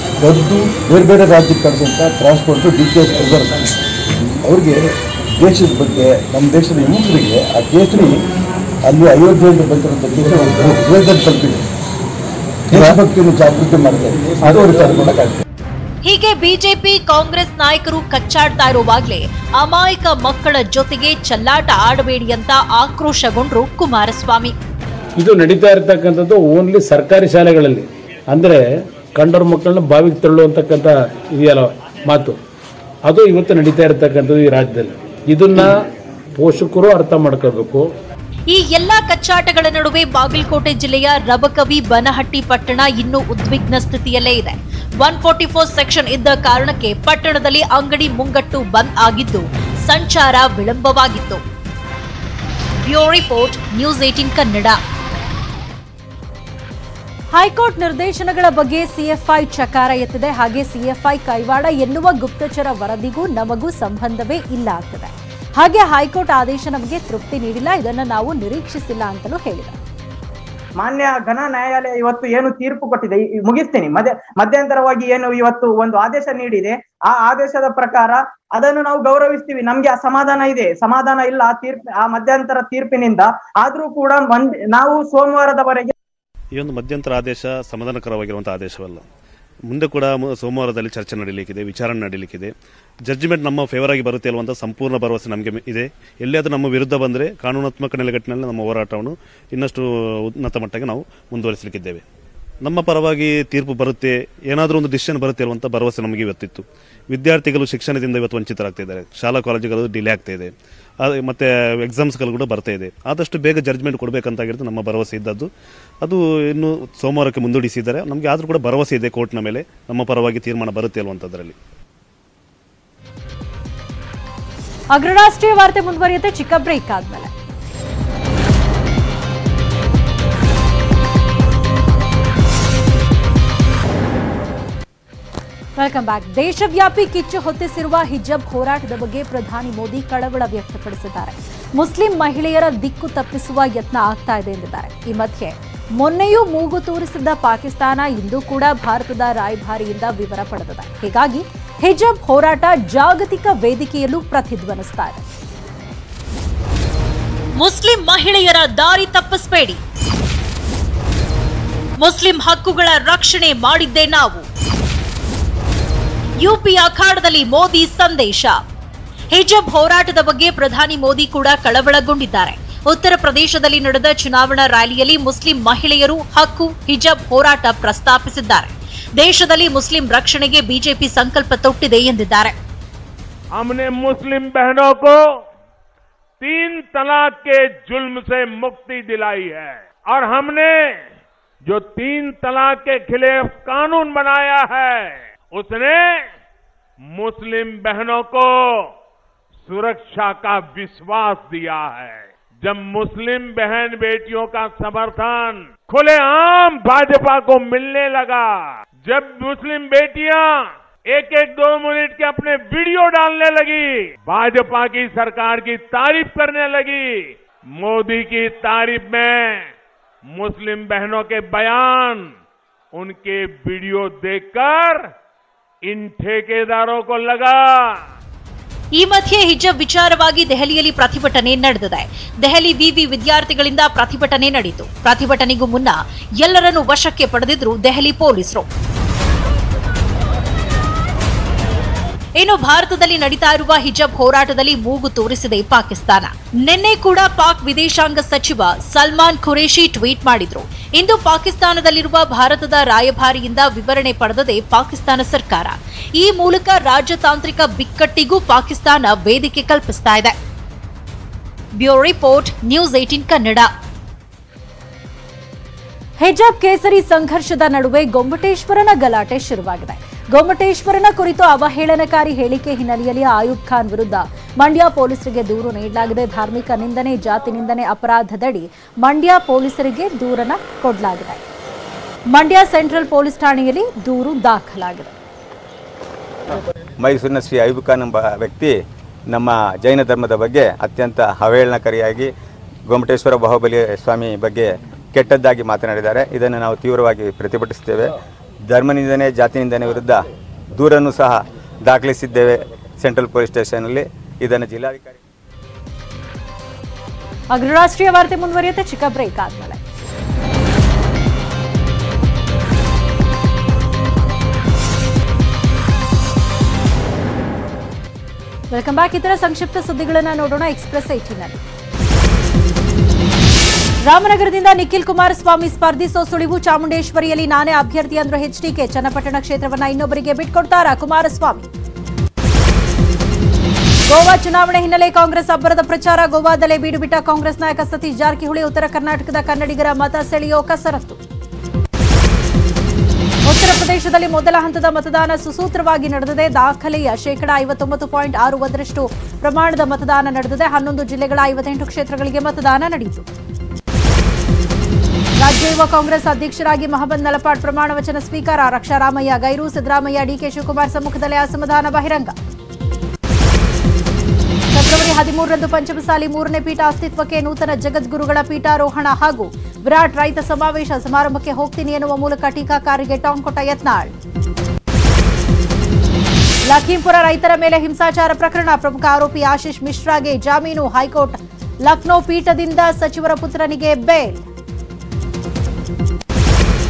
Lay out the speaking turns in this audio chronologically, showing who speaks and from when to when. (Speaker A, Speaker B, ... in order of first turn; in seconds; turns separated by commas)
Speaker A: 0.2-3.7, Speaker A: 4.4-8.2, Speaker A: 8.9-11.6, Speaker A: 12.7-15.4, Speaker B: 16.1-24.5, Speaker C: 17.0-17.5, Speaker D: 25.2-28.5, Speaker D: 29.2-32.4, Speaker D: 33.1-35.7, Speaker D: 36.4-37.8, Speaker B: 38.5-51.4, Speaker B: 52.8-54.8, Speaker E: 57.3-69.8, Speaker F: 70.8-85.9, Speaker G: 86.5-89.0, Speaker G: 89.7-92.5, Speaker G: 93.1-102.0, Speaker G: 102.6-110.5, Speaker G: 111.0-115.5, Speaker G: 116.0-121.5, Speaker E: 124.9-127.3, Speaker E: 135.8-155.2, Speaker B: 157.6-159.8, Speaker B: 162.0-164.4, Speaker B: 166.4-168.5, Speaker B: 169.3-182.5, Speaker H: 183.5-185.2, Speaker H: 186.4-191.0, Speaker H: 191.7-196.2, Speaker H: 197.1-198.8, Speaker H: 199.7-210.6, Speaker H: 211.1-217.1, Speaker H: 217.8-219.6, Speaker H: 220.3-222.3, Speaker H: 222.9-225.0, Speaker H: 225.9-227.9, Speaker B: 229.0-238.7, Speaker B: 242.4-260.3, Speaker B: 261.8-263.7, Speaker E: 266.2-281.4, Speaker E: 282.3-285.1, Speaker C: 287.0-288.8, Speaker C: 289.3-292.3, Speaker C: 292.9-298.1, Speaker C: 298.7-300.2, Speaker C: 300.8-305.1, Speaker E: 307.5-309.8, Speaker E: 318.7-321.6, Speaker E: 324.1-331.7, Speaker E: 334.1-341.2, Speaker E: 343.4-353.3, Speaker E: 355.4-362.3, Speaker E: 364.7-374.1, Speaker E: 376.7-384.4